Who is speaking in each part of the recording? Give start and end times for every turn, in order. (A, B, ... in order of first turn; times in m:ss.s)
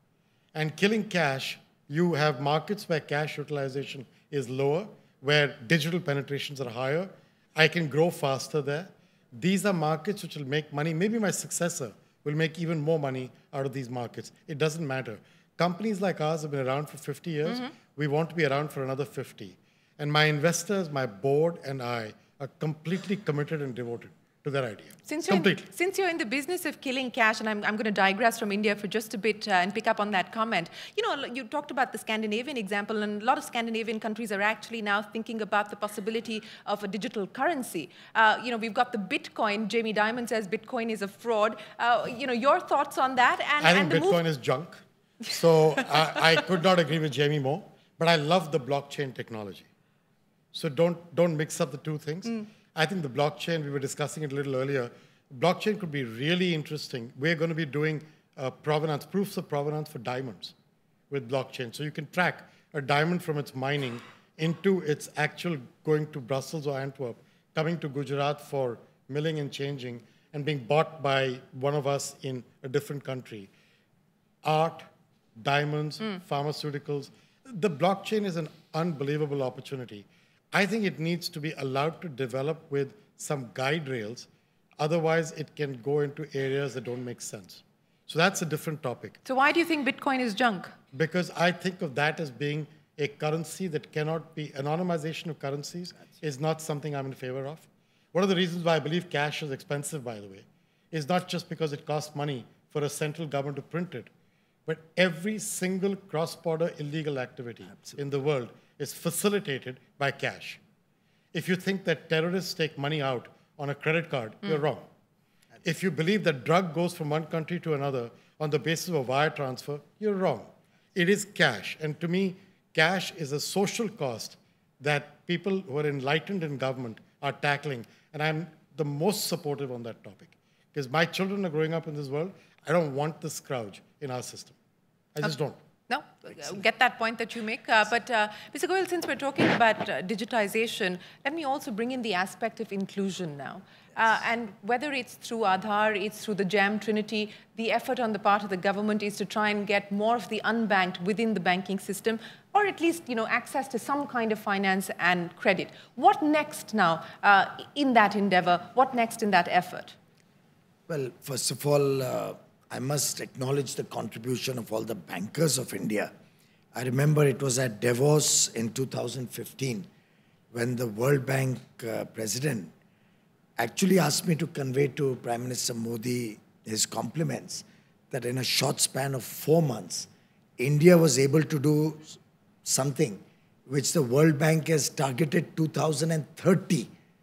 0:00.6-0:25.7 A
0:25.1-0:44.2 B
0:43.6-0:49.7 A
0:50.5-1:00.5 A
1:01.1-1:13.5 A
1:14.4-1:24.3 A
1:24.8-1:29.2 A
1:29.2-1:30.7 B
1:30.9-1:44.1 A
1:44.7-1:50.6 A
1:47.7-1:48.0 C
1:51.3-1:54.9 A
1:55.6-2:14.6 A
2:15.2-2:15.6 A
2:15.9-2:40.0 B
2:40.9-2:46.1 C
2:46.7-2:49.9 C
2:50.5-2:52.7 C
2:53.6-3:06.9 C